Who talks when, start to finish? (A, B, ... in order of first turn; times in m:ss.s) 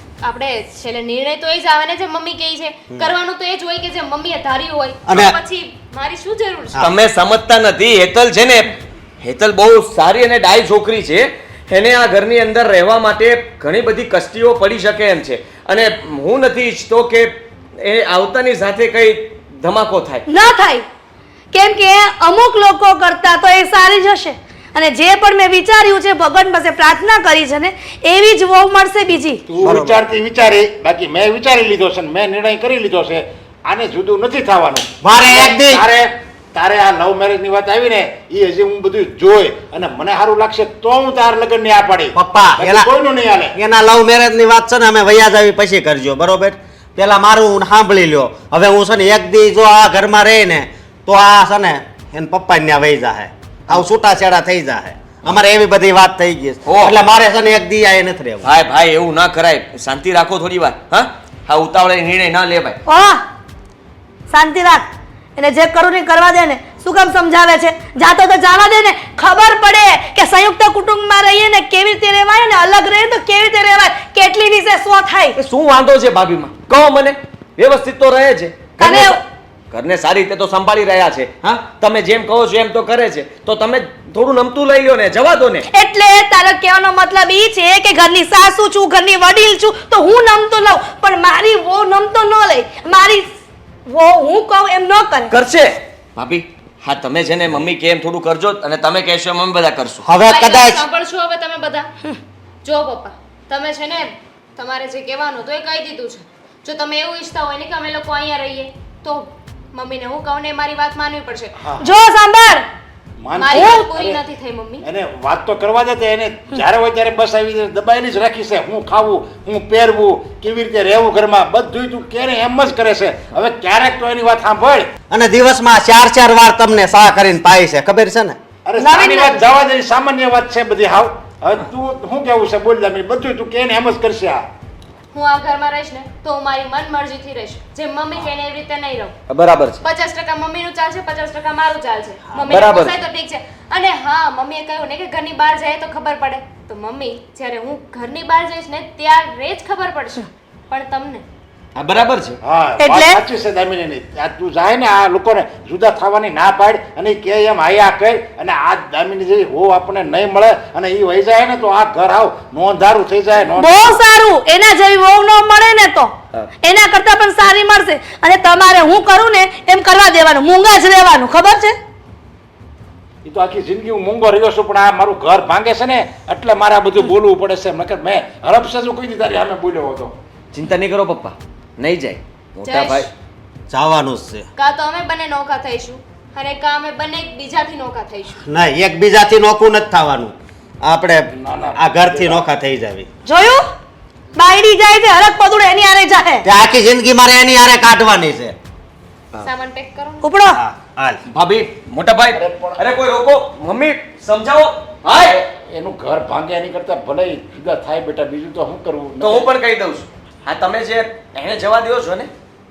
0:00.2-0:06.9 A
0:05.1-0:05.4 B
0:06.8-0:20.2 C
0:20.3-0:20.9 D
0:21.5-0:29.4 D
0:29.5-0:43.6 E
0:29.6-0:30.0 B
0:35.0-0:35.8 B
0:42.2-0:42.9 B
0:43.6-0:58.5 B
0:56.6-0:57.0 C
0:58.4-1:02.8 C
1:02.9-1:03.2 D
1:04.3-1:15.4 D
1:15.4-1:25.7 C
1:18.8-1:19.2 D
1:25.7-1:33.3 D
1:33.9-1:35.3 D
1:35.3-1:40.1 C
1:40.0-1:40.8 B
1:40.3-1:41.9 A
1:42.6-1:51.5 A
1:51.6-1:51.9 E
1:51.8-1:52.7 D
1:53.2-1:54.2 E
1:53.4-1:54.8 A
1:53.5-1:53.8 D
1:54.8-2:04.9 E
2:05.1-2:08.4 B
2:08.7-2:14.4 E
2:08.8-2:09.4 D
2:15.1-2:19.2 A
2:19.3-2:19.8 C
2:19.8-2:31.2 A
2:22.5-2:23.0 C
2:31.8-2:32.4 C
2:32.4-2:44.0 E
2:32.8-2:33.2 D
2:43.6-2:51.8 D
2:53.2-3:00.2 E
3:00.5-3:03.1 C
3:02.6-3:03.1 A
3:03.7-3:04.5 B
3:04.6-3:08.4 A
3:08.5-3:13.1 B
3:11.4-3:12.5 E
3:13.2-3:13.7 D
3:14.4-3:16.5 D
3:16.4-3:18.6 B
3:19.4-3:20.2 A
3:20.2-3:20.6 D
3:20.5-3:21.2 B
3:21.3-3:25.4 C
3:22.3-3:22.8 E
3:25.2-3:29.5 E
3:29.2-3:32.3 C